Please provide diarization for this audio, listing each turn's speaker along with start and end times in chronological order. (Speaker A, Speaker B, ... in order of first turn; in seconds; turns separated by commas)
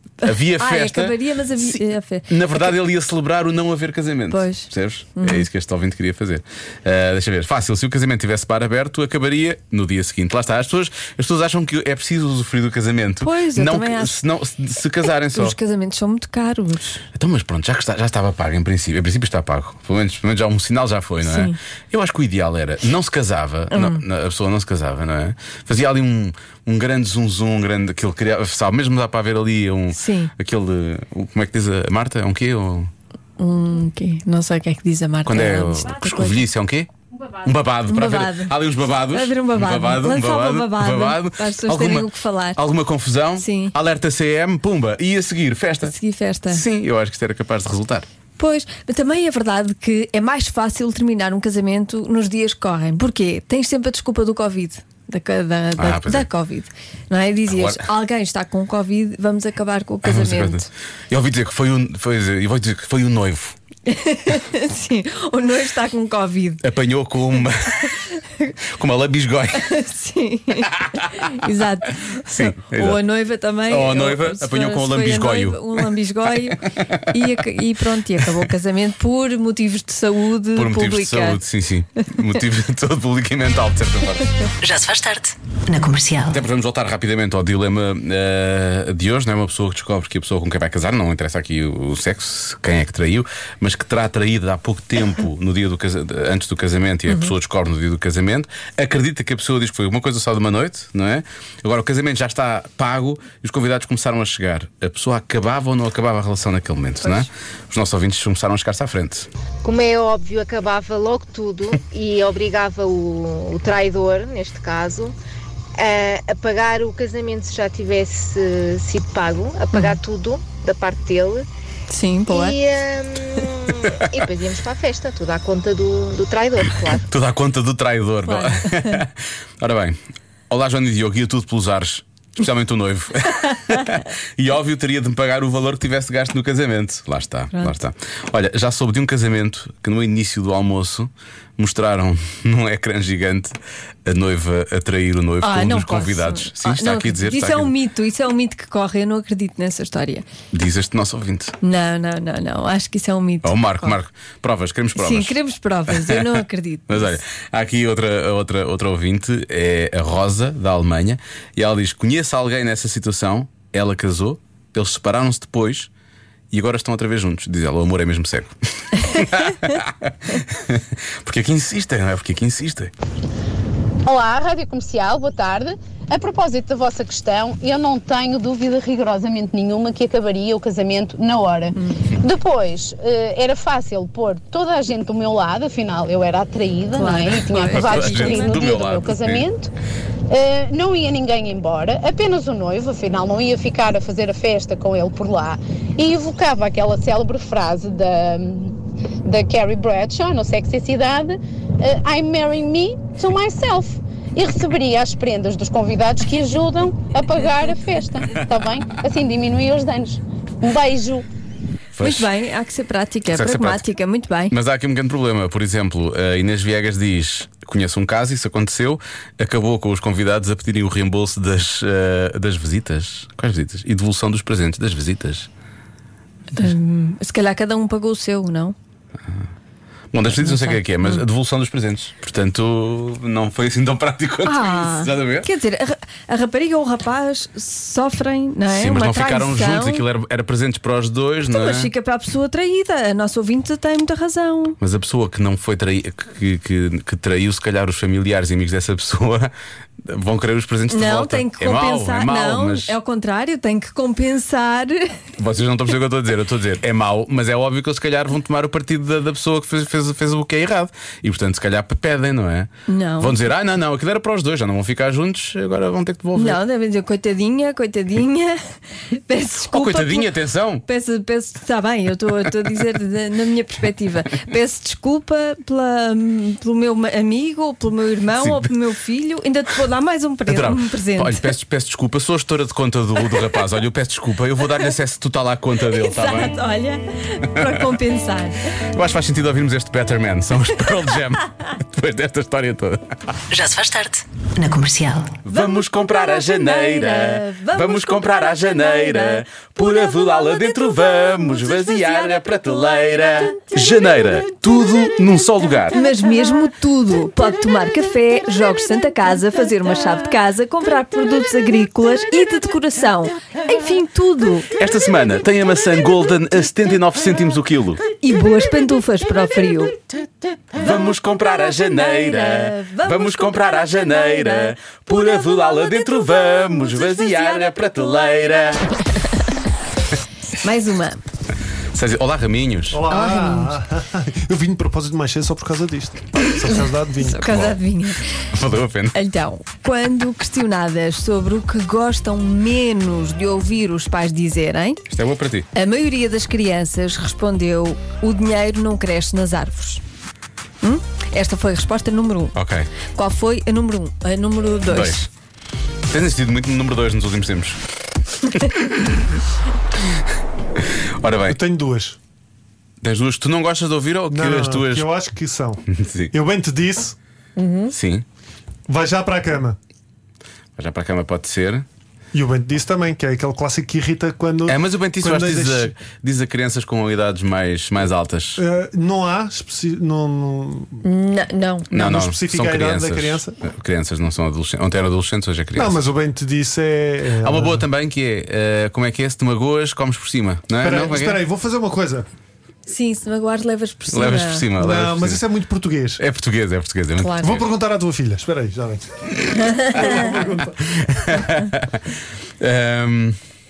Speaker A: 0.2-15.6, Speaker B: 0.2-2.6, Speaker B: 4.3-5.5, Speaker B: 13.2-14.2, Speaker B: 15.3-17.0, Speaker A: 17.1-32.9, Speaker B: 21.2-21.6, Speaker B: 23.7-24.0, Speaker B: 29.9-30.3, Speaker B: 33.4-36.4, Speaker A: 35.3-45.9, Speaker B: 37.9-42.6, Speaker B: 43.4-43.8, Speaker B: 45.9-46.6, Speaker A: 46.5-48.1, Speaker B: 48.4-60.7, Speaker A: 55.8-56.3, Speaker A: 57.5-57.9, Speaker A: 60.0-63.6, Speaker B: 63.9-66.6, Speaker A: 66.6-68.0, Speaker A: 68.7-69.8, Speaker B: 69.5-81.4, Speaker A: 70.6-71.5, Speaker A: 72.1-73.0, Speaker A: 73.7-75.9, Speaker A: 76.6-77.3, Speaker A: 80.5-84.3, Speaker C: 84.6-86.4, Speaker A: 86.3-109.3, Speaker B: 97.1-97.3, Speaker D: 109.6-115.2, Speaker D: 115.8-121.5, Speaker B: 121.9-122.6, Speaker D: 122.3-127.1, Speaker A: 127.1-130.0, Speaker B: 128.3-129.0, Speaker A: 130.5-143.6, Speaker A: 144.1-147.7, Speaker B: 145.4-150.3, Speaker A: 150.5-151.6, Speaker B: 151.6-154.0, Speaker A: 153.4-155.3, Speaker B: 154.9-157.2, Speaker A: 155.9-165.9, Speaker A: 166.5-172.9, Speaker E: 174.1-189.7, Speaker B: 181.8-182.1, Speaker B: 186.9-188.6, Speaker A: 187.7-189.5, Speaker E: 190.3-211.3, Speaker A: 211.9-212.3, Speaker B: 212.0-214.6, Speaker A: 213.3-213.8, Speaker A: 214.5-225.5, Speaker B: 226.5-228.8, Speaker A: 230.1-235.5, Speaker B: 230.3-231.2, Speaker B: 234.4-240.0, Speaker A: 238.7-241.9, Speaker B: 241.5-244.8, Speaker A: 244.8-249.5, Speaker A: 250.0-252.9, Speaker B: 250.9-255.2, Speaker A: 255.4-266.6, Speaker B: 262.9-263.4, Speaker B: 266.4-270.3, Speaker A: 269.7-270.9, Speaker B: 270.9-281.5, Speaker A: 278.4-278.7, Speaker A: 280.5-286.5, Speaker B: 285.9-288.8, Speaker A: 288.9-293.0, Speaker C: 293.5-295.4, Speaker A: 295.5-306.0, Speaker B: 295.5-299.4, Speaker B: 305.9-314.7, Speaker A: 314.8-318.0, Speaker B: 318.2-320.0, Speaker A: 320.7-328.9, Speaker B: 320.8-328.3, Speaker B: 330.6-331.2, Speaker A: 331.9-333.0, Speaker F: 332.9-337.7, Speaker B: 333.1-333.8, Speaker B: 337.2-338.4, Speaker A: 337.5-337.8, Speaker A: 338.5-339.2, Speaker B: 339.1-345.0, Speaker A: 345.1-345.7, Speaker B: 345.8-350.0, Speaker B: 350.8-352.6, Speaker A: 352.6-352.9, Speaker B: 353.1-355.2, Speaker A: 354.9-355.3, Speaker A: 356.1-357.8, Speaker A: 358.5-359.2, Speaker A: 361.2-361.6, Speaker F: 361.5-362.2, Speaker A: 363.0-365.1, Speaker F: 364.3-367.2, Speaker A: 365.9-366.3, Speaker A: 367.9-368.2, Speaker F: 368.9-369.8, Speaker A: 370.8-371.9, Speaker F: 372.3-375.9, Speaker A: 374.7-378.6, Speaker F: 378.6-381.0, Speaker B: 381.0-381.9, Speaker F: 381.9-383.6, Speaker A: 381.9-385.9, Speaker F: 385.8-387.9, Speaker A: 387.4-391.4, Speaker F: 390.8-392.3, Speaker B: 392.9-394.7, Speaker A: 394.1-395.4, Speaker F: 394.8-396.2, Speaker A: 396.2-397.6, Speaker B: 397.2-397.6, Speaker F: 397.4-399.2, Speaker A: 399.4-403.4, Speaker F: 399.8-401.3